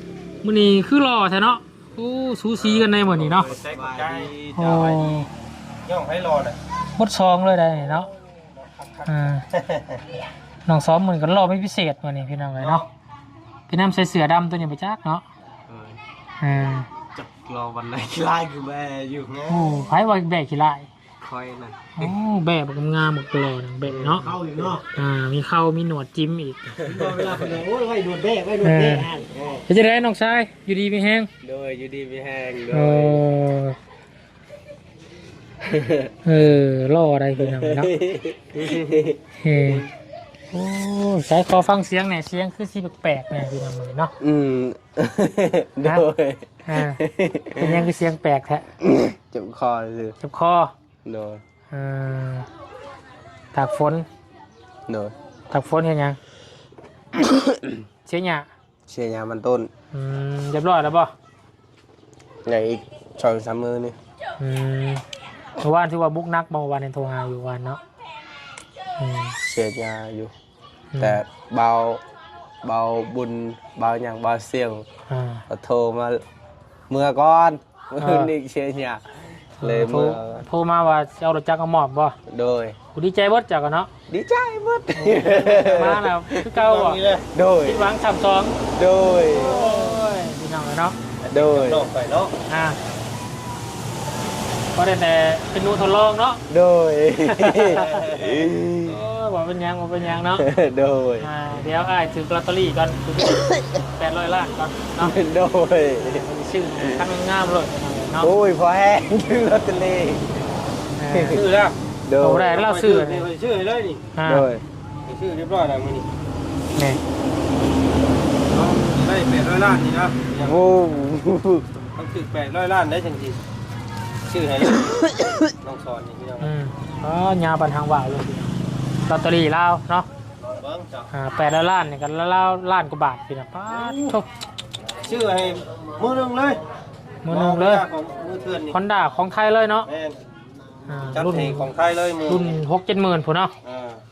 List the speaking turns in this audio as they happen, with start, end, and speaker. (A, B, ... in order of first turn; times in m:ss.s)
0:00.4-0:03.5 A
0:03.3-0:05.1 B
0:03.4-0:04.8 C
0:04.5-0:05.3 A
0:05.8-0:06.6 B
0:07.0-0:08.1 A
0:09.0-0:09.5 A
0:10.6-0:12.9 A
0:13.7-0:15.2 A
0:15.7-0:16.0 C
0:16.4-0:16.9 A
0:17.2-0:19.6 C
0:19.4-0:20.9 A
0:21.2-0:22.1 C
0:22.0-0:24.3 A
0:24.0-0:24.8 C
0:24.2-0:24.7 B
0:24.8-0:26.9 A
0:26.8-0:27.7 C
0:26.9-0:29.3 B
0:28.6-0:31.3 A
0:31.4-0:33.2 C
0:32.7-0:33.8 A
0:35.6-0:36.1 C
0:36.2-0:37.9 A
0:37.4-0:39.2 C
0:39.3-0:39.9 A
0:40.5-0:44.1 A
0:44.2-0:47.8 C
0:45.8-0:46.1 A
0:46.6-0:47.0 A
0:47.5-0:48.7 A
0:48.8-0:50.2 C
0:50.2-0:50.7 A
0:51.0-0:51.4 C
0:51.7-0:52.5 A
0:53.5-0:54.1 A
0:54.9-0:55.1 C
0:55.5-0:56.2 A
0:57.2-0:57.6 C
0:58.0-0:58.5 A
0:58.9-0:59.7 C
0:59.9-1:01.1 A
1:02.4-1:04.0 C
1:04.4-1:05.0 A
1:05.6-1:07.8 A
1:09.0-1:09.4 A
1:09.4-1:10.3 C
1:10.9-1:11.2 A
1:11.0-1:12.0 C
1:12.6-1:14.8 C
1:15.1-1:15.4 A
1:15.5-1:16.2 C
1:16.9-1:19.1 C
1:18.0-1:18.3 A
1:19.6-1:20.4 C
1:19.6-1:22.2 A
1:22.3-1:22.8 C
1:22.9-1:23.9 A
1:24.1-1:26.4 C
1:24.9-1:27.0 A
1:26.5-1:27.3 B
1:27.2-1:27.9 C
1:27.6-1:28.6 A
1:28.7-1:29.8 C
1:29.3-1:31.0 A
1:31.3-1:31.9 C
1:31.4-1:32.3 B
1:32.5-1:32.8 A
1:34.7-1:36.4 A
1:36.5-1:39.0 C
1:37.3-1:40.5 A
1:40.3-1:41.3 C
1:41.2-1:45.2 A
1:45.0-1:46.2 C
1:46.0-1:48.3 A
1:48.2-1:50.3 C
1:51.0-1:51.4 A
1:51.1-1:51.5 C
1:51.3-1:51.8 B
1:52.1-1:52.7 C
1:52.2-1:53.3 A
1:52.6-1:54.0 B
1:54.1-1:54.5 A
1:54.2-1:54.6 C
1:55.1-1:56.0 B
1:56.8-1:57.0 A
1:58.5-2:00.6 B
2:00.3-2:01.6 C
2:01.9-2:03.4 B
2:04.3-2:06.4 B
2:06.4-2:10.1 A
2:10.6-2:11.1 B
2:11.1-2:14.2 A
2:15.0-2:16.6 B
2:17.2-2:17.8 A
2:17.3-2:18.7 B
2:18.7-2:19.9 A
2:19.9-2:20.2 B
2:20.9-2:23.5 A
2:21.1-2:22.5 B
2:23.6-2:24.0 B